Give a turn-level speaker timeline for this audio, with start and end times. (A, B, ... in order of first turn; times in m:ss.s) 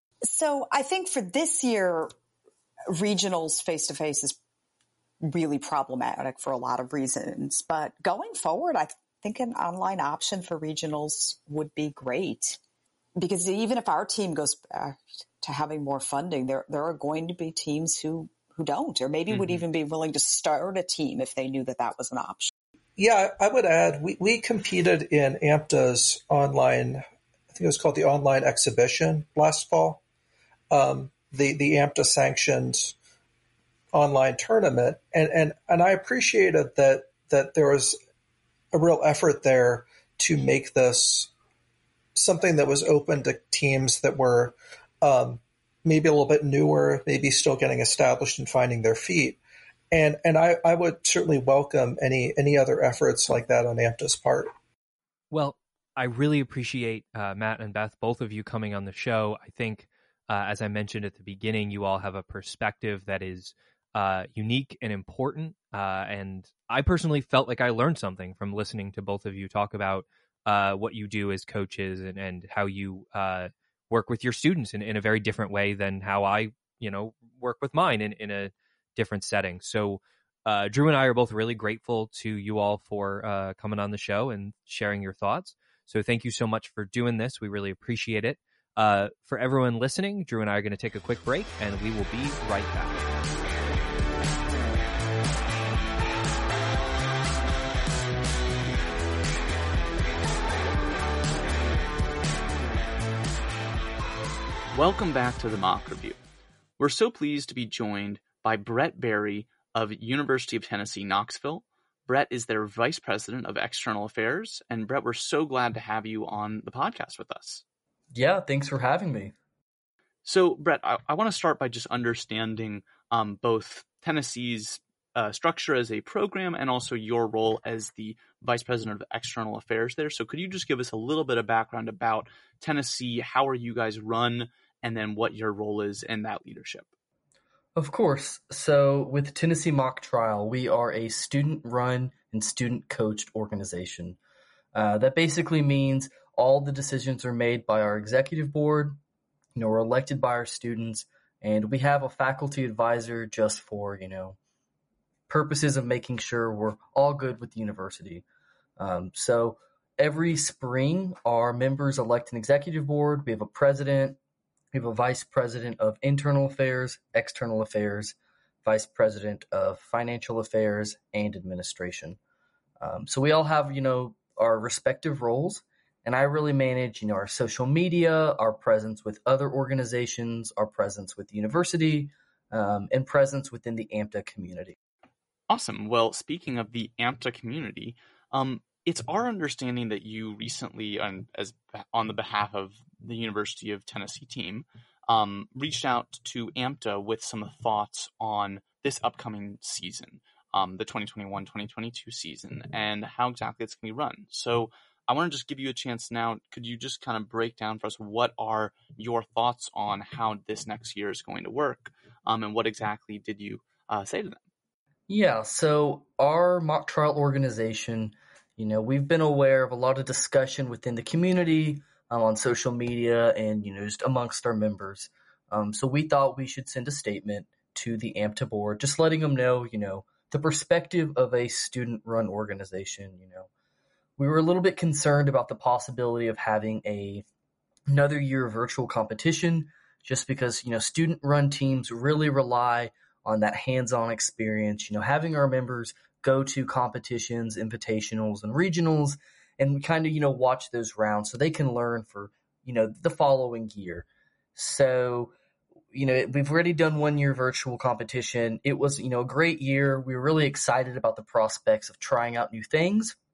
0:00.3-0:02.1 A
0:02.9-0:04.4 A
0:05.2-0:12.6 A
0:13.2-0:22.5 A
0:19.3-0:19.6 B
0:23.0-0:30.0 C
0:30.7-0:33.0 C
0:33.9-0:38.0 C
0:38.7-0:41.3 C
0:42.2-0:49.4 C
0:49.9-0:54.5 C
0:55.3-1:33.0 D
1:44.7-1:46.2 B
1:46.8-1:57.6 B
1:58.1-1:59.3 E
2:00.2-2:16.9 B
2:17.8-2:24.2 E
2:24.7-2:29.0 E
2:29.6-2:34.4 E
2:35.3-2:38.2 E
2:38.8-2:44.2 E
2:44.7-2:52.2 E
2:52.8-3:04.8 E
3:05.5-3:34.4 B
3:35.1-3:53.5 E
3:54.2-3:57.2 E
3:57.9-4:15.3 E
4:15.9-4:23.2 E